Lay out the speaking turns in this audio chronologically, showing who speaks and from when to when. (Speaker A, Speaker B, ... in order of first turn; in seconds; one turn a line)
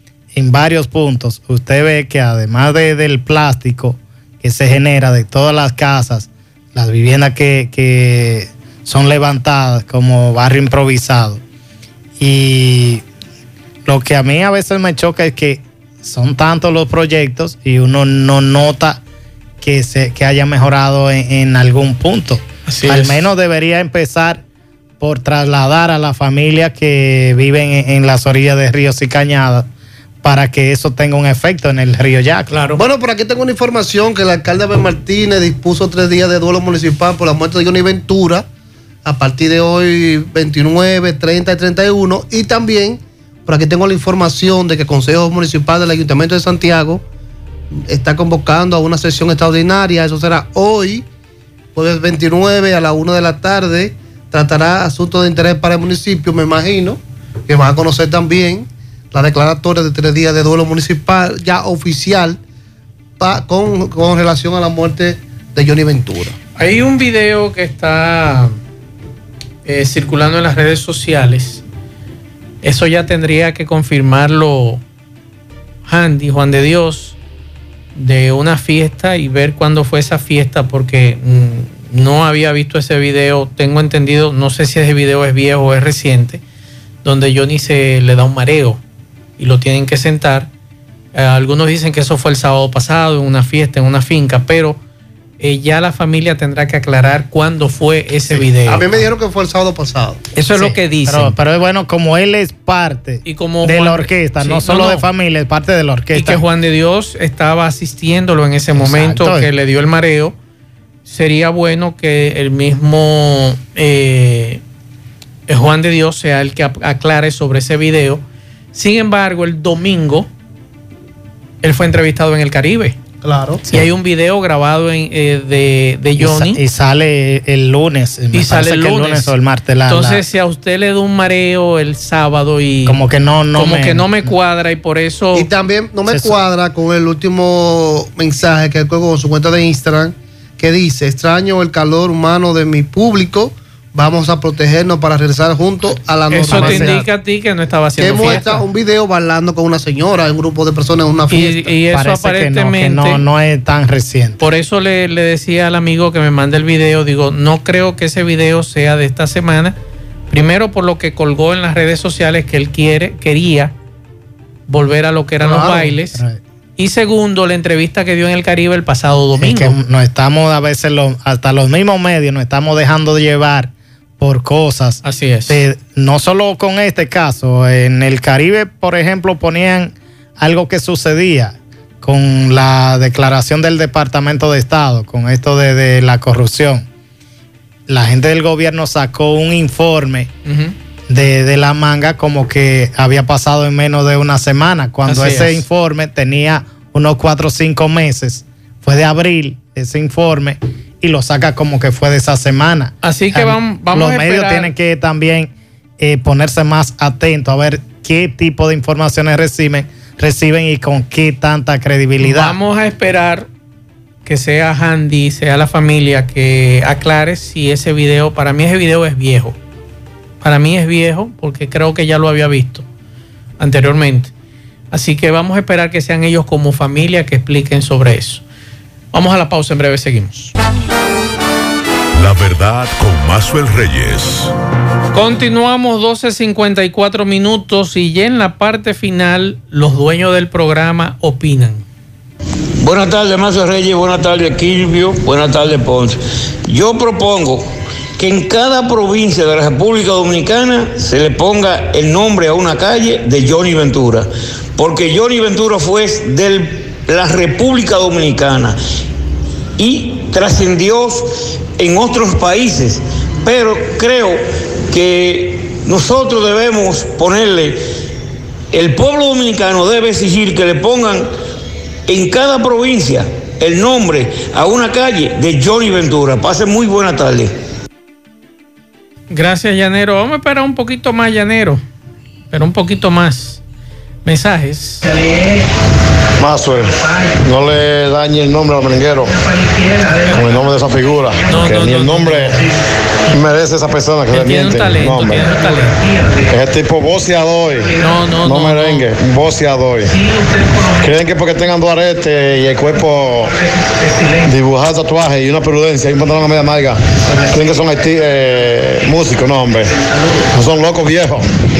Speaker A: 0.3-11.4
Speaker A: 12.2-13.0
Speaker A: 13.8-19.0
Speaker A: 19.6-24.4
Speaker B: 22.6-23.3
Speaker A: 25.0-29.7
Speaker A: 30.2-32.5
Speaker B: 32.5-32.8
Speaker C: 32.8-38.5
Speaker C: 39.0-47.0
Speaker C: 47.8-51.0
Speaker C: 51.7-62.4
Speaker C: 63.2-66.3
Speaker B: 66.5-68.5
Speaker B: 69.6-71.6
Speaker B: 72.6-74.8
Speaker B: 75.8-77.2
Speaker B: 77.9-86.4
Speaker B: 87.0-88.8
Speaker B: 89.4-90.5
Speaker B: 91.1-94.8
Speaker B: 95.4-98.8
Speaker C: 98.6-100.2
Speaker B: 100.3-101.3
Speaker A: 100.5-106.4
Speaker B: 103.2-105.0
Speaker B: 106.1-110.3
Speaker A: 108.7-109.5
Speaker B: 111.0-114.6
Speaker B: 115.5-118.2
Speaker B: 118.7-120.3
Speaker B: 121.6-123.0
Speaker C: 123.2-123.6
Speaker B: 123.7-126.6
Speaker A: 126.2-130.2
Speaker B: 128.3-129.3
Speaker B: 129.9-133.0
Speaker A: 132.8-134.3
Speaker B: 133.5-135.5
Speaker C: 135.3-147.1
Speaker B: 146.3-148.6
Speaker A: 146.5-147.0
Speaker C: 148.0-151.5
Speaker B: 151.3-153.2
Speaker A: 151.6-154.4
Speaker B: 154.4-159.8
Speaker B: 160.3-163.7
Speaker B: 164.7-166.2
Speaker C: 165.4-165.9
Speaker A: 166.1-166.4
Speaker B: 166.8-169.8
Speaker A: 169.4-186.8
Speaker B: 175.0-175.6
Speaker A: 187.9-190.3
Speaker B: 190.4-190.7
Speaker A: 191.1-212.6
Speaker B: 195.1-195.6
Speaker B: 203.0-204.7
Speaker B: 212.2-213.5
Speaker B: 214.2-219.6
Speaker B: 220.4-222.8
Speaker B: 223.6-224.3
Speaker B: 224.9-228.4
Speaker B: 229.1-230.5
Speaker D: 232.1-234.5
Speaker B: 235.1-241.8
Speaker E: 242.8-258.8
Speaker E: 259.8-267.8
Speaker E: 268.7-271.3
Speaker E: 272.1-277.5
Speaker B: 279.3-281.8
Speaker B: 282.5-283.6
Speaker B: 284.2-285.1
Speaker F: 286.4-289.4
Speaker B: 290.2-290.6
Speaker F: 290.3-292.6
Speaker B: 291.5-292.6
Speaker F: 293.3-295.5
Speaker B: 294.3-296.6
Speaker F: 296.5-300.1
Speaker B: 298.0-299.1
Speaker B: 300.0-301.3
Speaker F: 301.0-303.5
Speaker B: 303.4-304.6
Speaker F: 304.4-307.0
Speaker B: 307.3-308.1
Speaker F: 307.5-309.9
Speaker F: 310.5-311.4